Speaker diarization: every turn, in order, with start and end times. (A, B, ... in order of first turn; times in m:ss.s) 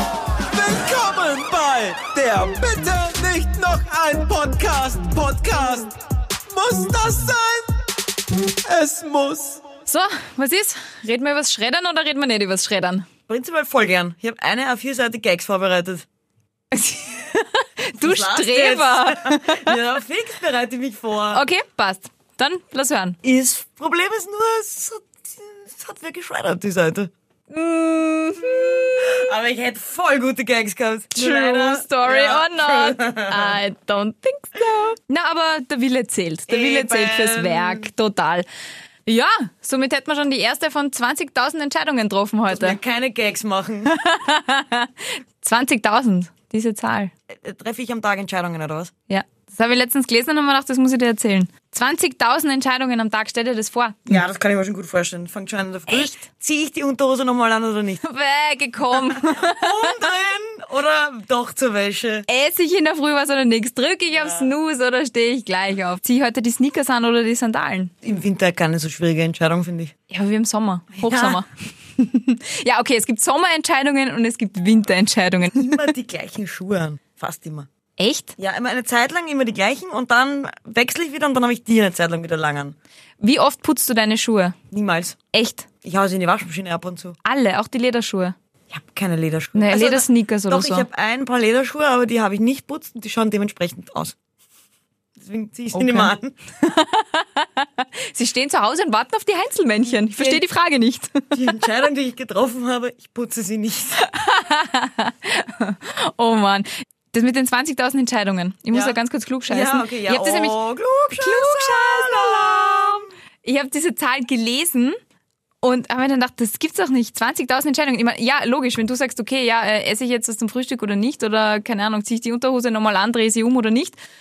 0:00.4-0:05.9 A
0:06.4-0:07.7 A
0:08.6-0:09.6 A
0:09.8-0:13.1 B
0:13.3-0:16.0 C
0:16.7-0:19.8 B
0:18.0-0:21.4 C
0:21.3-0:23.2 B
0:23.2-0:27.1 C
0:27.5-0:29.2 B
0:28.5-0:33.6 C
0:31.1-0:38.4 B
0:36.5-0:37.9 C
0:39.0-0:42.8 B
0:42.5-0:43.9 C
0:43.8-0:47.1 B
0:47.3-0:48.9 C
0:49.1-0:54.1 B
0:54.1-0:58.0 C
0:58.0-1:00.0 B
0:59.0-1:02.2 C
1:02.3-1:07.9 B
1:04.1-1:04.5 C
1:08.0-1:09.9 C
1:10.1-1:15.9 B
1:11.0-1:11.4 C
1:15.4-1:17.7 C
1:18.0-1:18.3 B
1:18.4-1:22.8 C
1:23.2-1:24.6 B
1:24.7-1:25.2 C
1:25.3-1:25.7 B
1:25.8-1:27.2 C
1:27.2-1:28.4 B
1:28.7-1:34.1 C
1:29.5-1:30.9 B
1:35.2-1:36.3 C
1:35.7-1:41.4 B
1:39.8-1:40.4 C
1:41.3-1:44.0 C
1:44.0-1:55.0 B
1:48.7-1:53.1 C
1:55.6-2:04.0 B